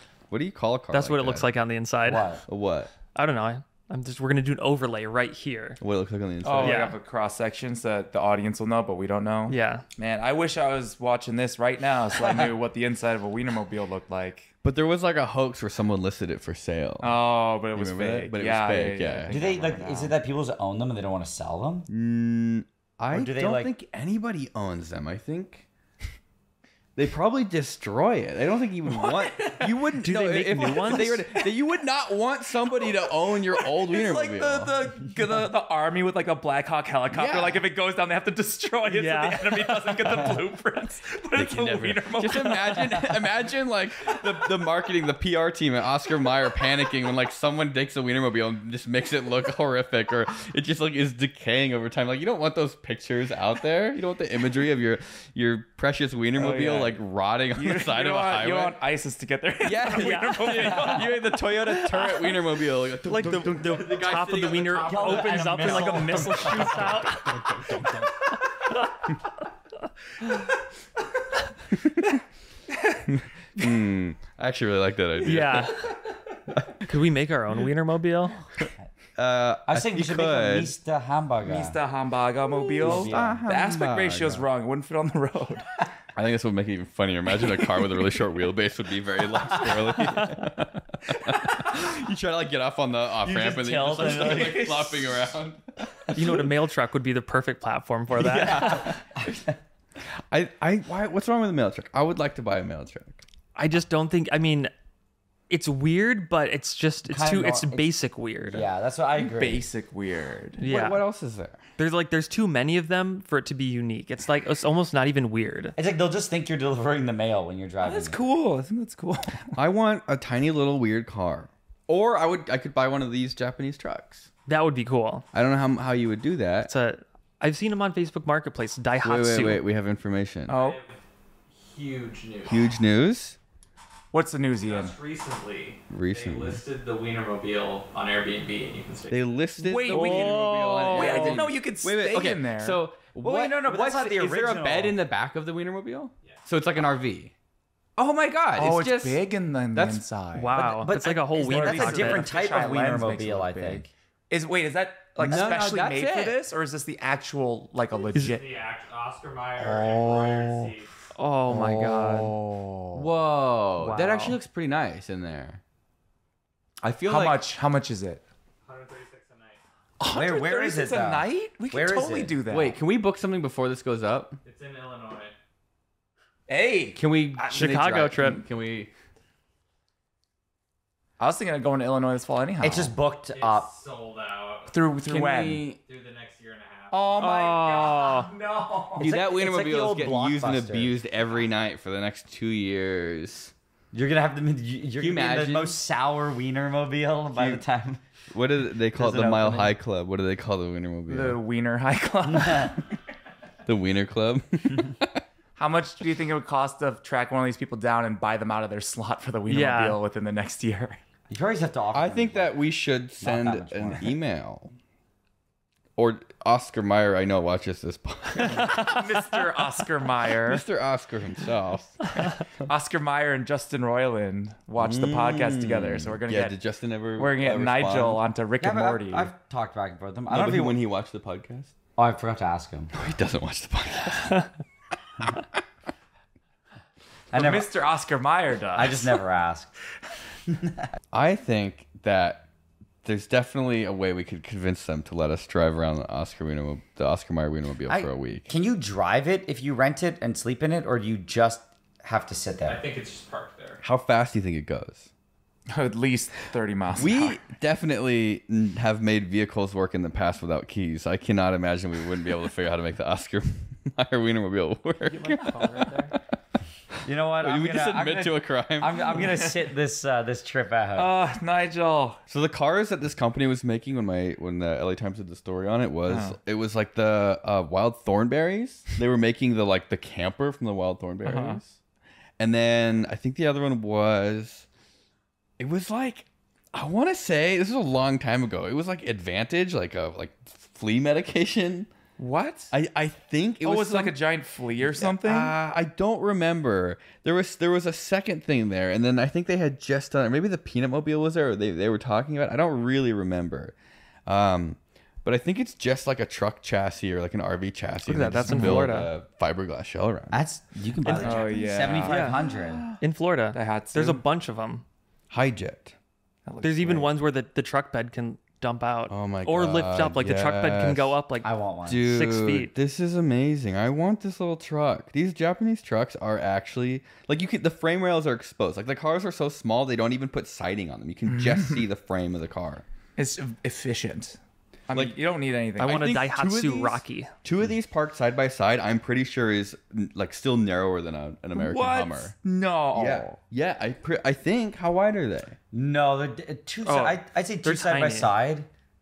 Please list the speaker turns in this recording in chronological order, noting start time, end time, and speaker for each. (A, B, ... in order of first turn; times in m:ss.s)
0:00.3-0:01.5 A
0:00.9-0:02.3 B
0:02.0-0:02.4 C
0:02.5-0:02.9 A
0:03.2-0:05.8 B
0:05.8-0:06.9 A
0:06.4-0:14.5 D
0:06.6-0:07.0 B
0:09.5-0:09.8 B
0:14.6-0:17.2 A
0:17.0-0:20.2 D
0:17.7-0:19.4 A
0:19.3-0:21.9 C
0:21.9-0:25.7 A
0:23.1-0:23.7 C
0:27.0-0:34.7 A
0:28.9-0:29.7 D
0:30.0-0:31.2 B
0:30.6-0:31.4 D
0:33.6-0:43.2 D
0:37.1-0:37.6 A
0:38.9-0:40.3 B
0:41.3-0:58.8 A
0:56.4-0:57.0 D
0:57.6-1:01.2 D
0:59.6-1:06.0 A
0:59.9-1:01.0 B
1:01.7-1:02.4 B
1:03.0-1:07.4 B
1:04.8-1:07.2 C
1:05.6-1:06.8 D
1:07.1-1:08.1 A
1:11.8-1:12.1 A
1:12.8-1:13.0 D
1:13.1-1:15.8 A
1:15.2-1:15.9 B
1:16.6-1:16.9 A
1:16.8-1:18.4 B
1:19.2-1:20.7 A
1:19.7-1:21.8 C
1:21.4-1:25.7 D
1:22.8-1:23.4 C
1:22.8-1:24.5 A
1:26.2-1:36.5 A
1:33.2-1:35.2 C
1:34.0-1:35.0 D
1:36.1-1:38.9 B
1:38.2-1:39.0 A
1:38.5-1:39.5 C
1:40.3-1:43.2 A
1:43.6-1:44.7 B
1:45.5-1:48.7 B
1:47.0-1:47.9 C
1:48.5-1:49.6 C
1:49.2-1:50.6 D
1:50.6-1:51.0 B
1:50.6-1:51.6 A
1:51.8-1:55.7 B
1:55.8-1:58.2 C
1:57.8-1:59.6 D
1:59.6-2:04.3 A
2:04.5-2:05.2 B
2:05.3-2:06.7 A
2:06.7-2:09.6 B
2:09.0-2:10.6 A
2:10.5-2:11.0 E
2:10.5-2:10.8 D
2:11.5-2:12.8 E
2:12.5-2:13.4 A
2:14.1-2:15.0 D
2:14.6-2:19.3 E
2:15.9-2:16.6 A
2:19.1-2:27.3 A
2:19.6-2:22.8 D
2:19.9-2:21.5 B
2:23.2-2:25.0 C
2:28.0-2:30.0 A
2:28.6-2:30.7 D
2:30.3-2:32.3 B
2:30.6-2:33.9 C
2:31.3-2:38.4 D
2:35.2-2:36.4 A
2:35.2-2:35.5 C
2:38.2-2:40.9 E
2:39.6-2:40.7 D
2:41.2-2:42.4 B
2:41.5-2:43.1 D
2:42.9-2:45.6 A
2:43.8-2:44.4 B
2:46.8-2:47.4 A
2:47.1-2:48.2 D
2:48.6-2:49.6 E
2:50.0-2:52.8 D
2:50.1-2:52.4 C
2:52.5-2:54.4 A
2:54.4-2:55.3 E
2:56.5-2:57.8 D
2:57.0-2:58.9 A
2:57.5-2:58.4 B
3:01.2-3:02.9 D
3:02.6-3:03.7 C
3:03.3-3:04.8 E
3:04.7-3:05.7 D
3:05.0-3:05.8 A
3:05.8-3:08.7 E
3:06.9-3:08.2 D
3:07.2-3:08.3 B
3:09.0-3:11.0 C
3:09.0-3:13.5 A
3:13.9-3:18.0 C
3:15.0-3:15.8 A
3:17.3-3:17.6 A
3:18.3-3:21.4 A
3:19.0-3:19.6 D
3:21.1-3:22.9 D
3:22.3-3:22.7 C
3:23.7-3:25.2 A
3:25.6-3:31.0 D
3:29.5-3:30.0 B
3:31.3-3:32.6 C
3:31.9-3:34.7 A
3:33.2-3:34.2 C
3:36.0-3:39.0 A
3:38.4-3:40.6 D
3:40.4-3:42.0 A
3:42.2-3:46.6 D
3:44.8-3:48.2 A
3:47.2-3:49.3 D
3:48.6-3:50.8 C
3:50.3-3:51.7 A
3:52.0-3:52.9 C
3:52.9-3:54.5 A
3:57.3-3:57.7 C
3:57.3-3:59.2 D
3:58.7-3:59.7 C
4:00.5-4:00.8 C
4:01.1-4:02.5 A
4:03.0-4:08.5 A
4:07.9-4:12.8 C
4:12.6-4:13.8 E
4:13.8-4:15.1 A
4:15.7-4:17.4 D
4:17.0-4:26.2 A
4:25.1-4:26.1 B
4:27.0-4:31.1 C
4:27.4-4:29.2 A
4:31.0-4:32.2 D
4:32.3-4:41.8 A
4:36.1-4:36.4 D
4:41.2-4:41.6 D
4:42.4-4:44.7 A
4:45.6-4:51.9 A
4:52.2-4:52.7 D
4:52.7-4:54.2 A
4:53.6-4:55.6 D
4:54.8-5:03.8 A
5:04.3-5:10.4 A
5:08.0-5:09.1 B
5:08.5-5:08.8 D
5:10.3-5:12.9 C
5:11.1-5:11.3 B
5:11.2-5:13.0 D
5:12.0-5:12.4 B
5:13.0-5:14.8 B
5:13.5-5:14.2 D
5:15.3-5:16.0 A
5:16.5-5:17.1 D
5:16.6-5:22.7 B
5:19.1-5:21.2 A
5:21.4-5:22.2 C
5:21.9-5:32.8 A
5:31.3-5:31.8 D
5:33.2-5:34.4 D
5:34.9-5:36.1 D
5:34.9-5:35.2 A
5:35.8-5:37.3 B
5:35.8-5:42.4 A
5:41.6-5:43.4 D
5:42.9-5:45.6 A
5:45.7-5:48.7 C
5:46.8-5:48.3 B